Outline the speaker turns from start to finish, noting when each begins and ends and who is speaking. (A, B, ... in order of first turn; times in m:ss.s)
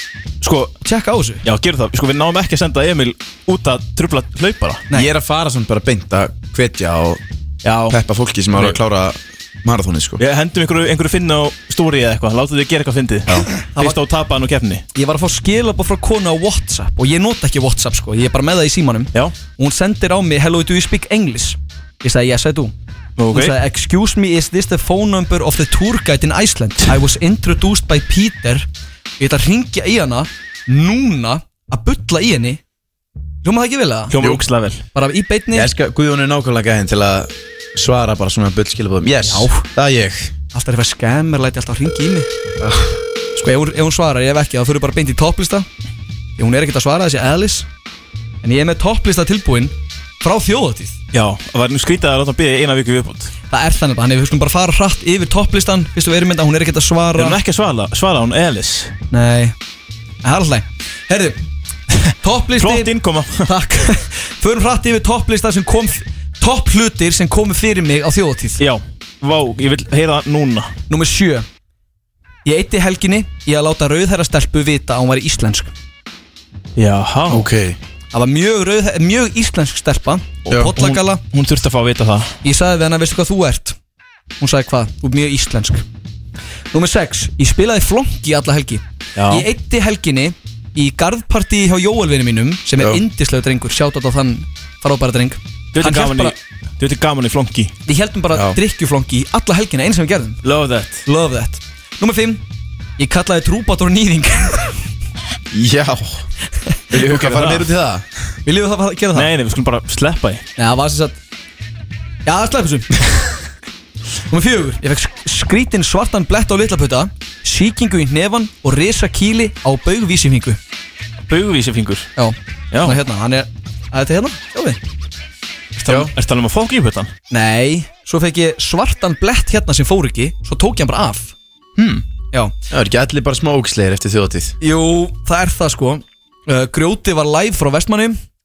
0:00.4-0:00.8 A
0:00.8-0:01.4 B
0:01.4-0:04.8 A
0:04.9-0:07.2 C
0:07.6-0:08.0 A
0:07.9-0:10.2 C
0:08.5-0:08.8 A
0:10.2-0:14.8 A
0:13.6-0:14.0 B
0:15.0-0:22.8 B
0:23.2-0:23.6 A
0:23.3-0:28.7 B
0:29.2-0:32.6 B
0:33.4-0:34.2 B
0:34.1-0:34.8 A
0:34.9-0:35.7 B
0:35.5-0:40.3 C
0:39.2-0:39.6 B
0:40.5-0:42.3 B
0:42.6-0:42.9 C
0:43.4-0:45.7 B
0:46.4-0:47.7 B
0:48.4-0:51.0 B
0:51.1-0:53.3 A
0:53.5-0:57.4 B
0:57.2-0:59.0 A
0:59.1-0:59.6 B
1:00.2-1:01.4 B
1:02.2-1:02.9 B
1:02.6-1:03.5 A
1:03.4-1:08.6 B
1:08.6-1:10.7 A
1:10.9-1:11.5 B
1:12.4-1:15.7 B
1:16.8-1:17.5 A
1:17.3-1:17.8 C
1:18.1-1:21.2 B
1:20.5-1:22.3 A
1:22.4-1:23.8 B
1:24.4-1:25.8 B
1:26.7-1:36.4 B
1:29.2-1:29.5 A
1:35.7-1:37.7 A
1:37.9-1:40.4 B
1:38.3-1:38.6 C
1:40.4-1:41.1 A
1:41.1-1:42.4 B
1:43.0-1:44.8 B
1:45.5-1:46.2 C
1:46.9-1:48.1 C
1:46.9-1:47.7 A
1:48.4-1:49.3 B
1:49.2-1:50.4 A
1:50.6-1:51.2 B
1:52.2-1:53.0 B
1:54.3-2:00.6 B
2:01.3-2:02.1 A
2:02.2-2:04.8 B
2:02.7-2:03.0 A
2:05.9-2:06.1 C
2:05.9-2:07.1 A
2:07.3-2:11.4 B
2:11.8-2:12.0 A
2:12.7-2:14.6 C
2:14.6-2:18.2 B